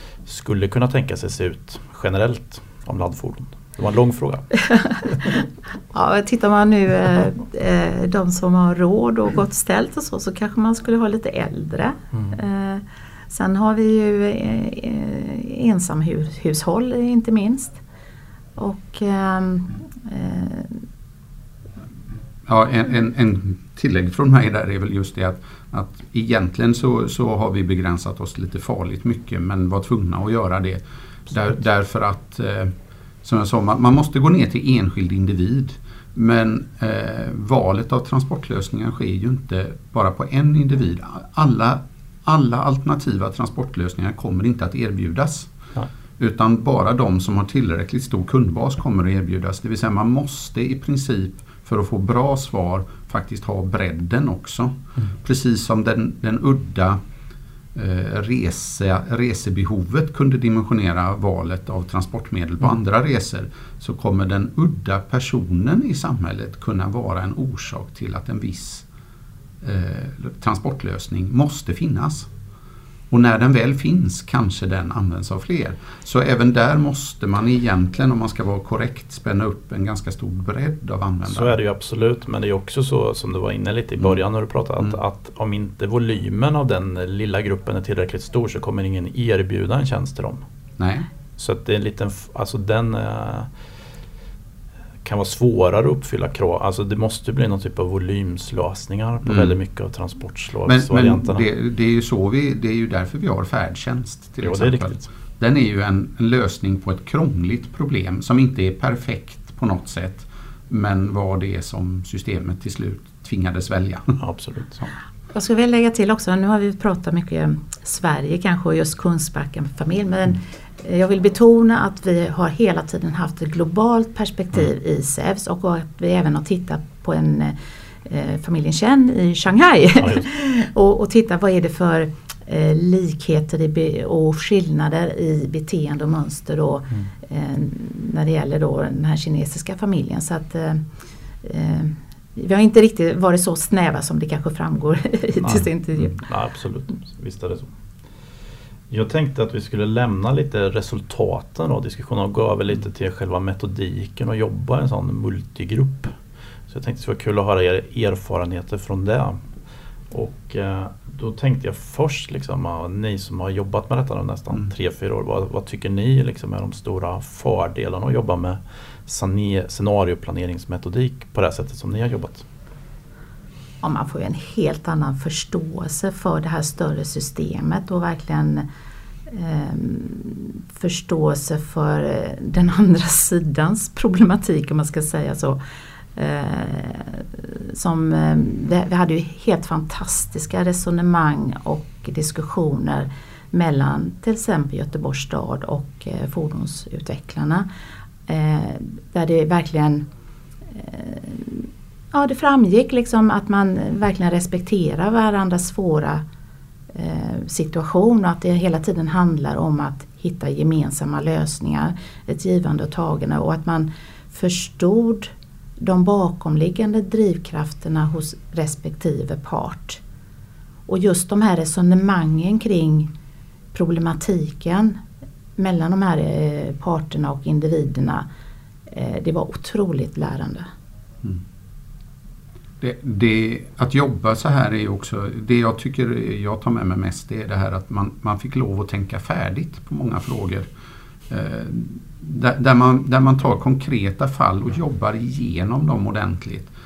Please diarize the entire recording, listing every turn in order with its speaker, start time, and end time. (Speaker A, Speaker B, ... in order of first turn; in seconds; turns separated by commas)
Speaker A: 0.2-4.5, Speaker B: 4.7-5.4, Speaker B: 5.9-17.8, Speaker B: 18.6-20.8, Speaker C: 22.4-32.7, Speaker C: 33.2-45.5, Speaker C: 46.2-57.0, Speaker C: 57.7-68.8, Speaker C: 69.6-72.3, Speaker C: 73.1-81.6, Speaker A: 81.3-90.4, Speaker C: 90.8-91.1, Speaker A: 91.4-93.5, Speaker A: 95.0-101.4, Speaker C: 99.2-99.5, Speaker C: 100.7-114.2, Speaker A: 104.4-105.0, Speaker A: 114.2-114.9, Speaker B: 115.3-140.8, Speaker B: 141.4-146.1, Speaker A: 145.4-147.7, Speaker A: 148.9-156.1, Speaker A: 156.7-159.4, Speaker A: 160.1-172.4, Speaker B: 173.8-178.7, Speaker B: 179.3-185.6, Speaker B: 186.1-197.7, Speaker B: 198.3-200.0, Speaker B: 200.7-206.2, Speaker B: 206.9-220.0, Speaker B: 220.9-223.1, Speaker B: 223.7-225.0, Speaker B: 225.6-228.2, Speaker B: 228.9-230.7, Speaker C: 232.8-240.7, Speaker C: 241.3-246.7